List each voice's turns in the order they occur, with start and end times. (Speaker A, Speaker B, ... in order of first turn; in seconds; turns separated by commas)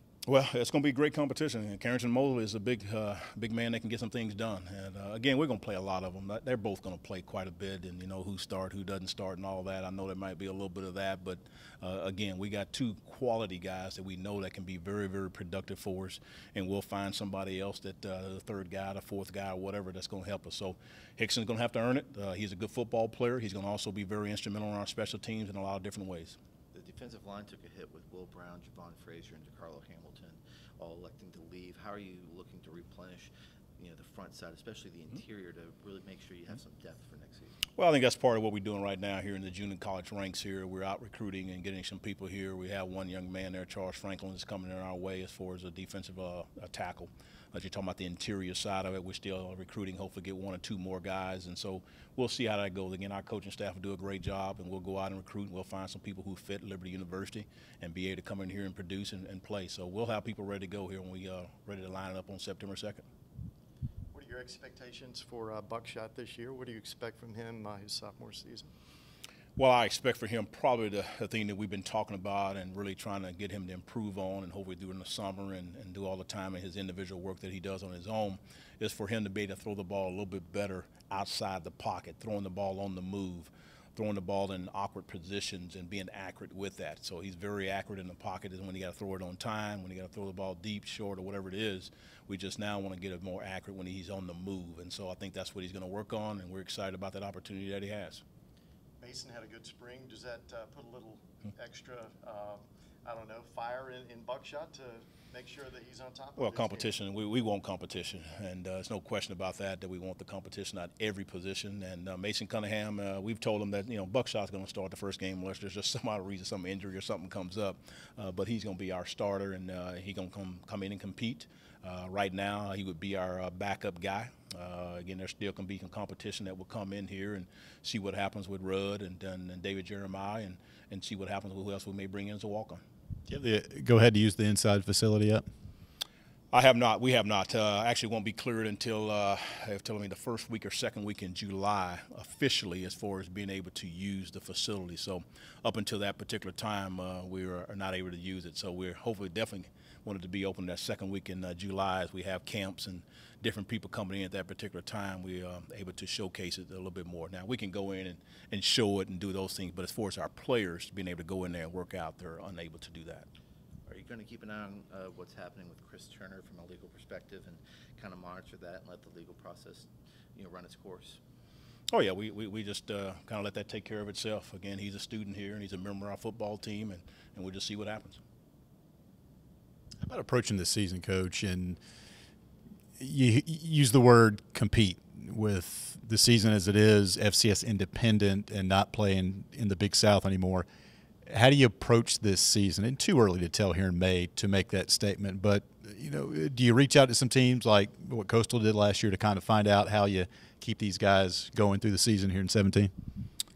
Speaker A: 0.3-26.4, Speaker B: 26.7-37.6, Speaker A: 37.8-63.0, Speaker C: 64.1-68.7, Speaker A: 69.5-98.2, Speaker C: 99.0-106.9, Speaker A: 106.3-132.8, Speaker D: 133.3-135.4, Speaker A: 136.5-163.3, Speaker B: 163.8-171.2, Speaker A: 171.9-178.2, Speaker D: 180.0-181.8, Speaker D: 183.0-190.7, Speaker D: 191.3-202.9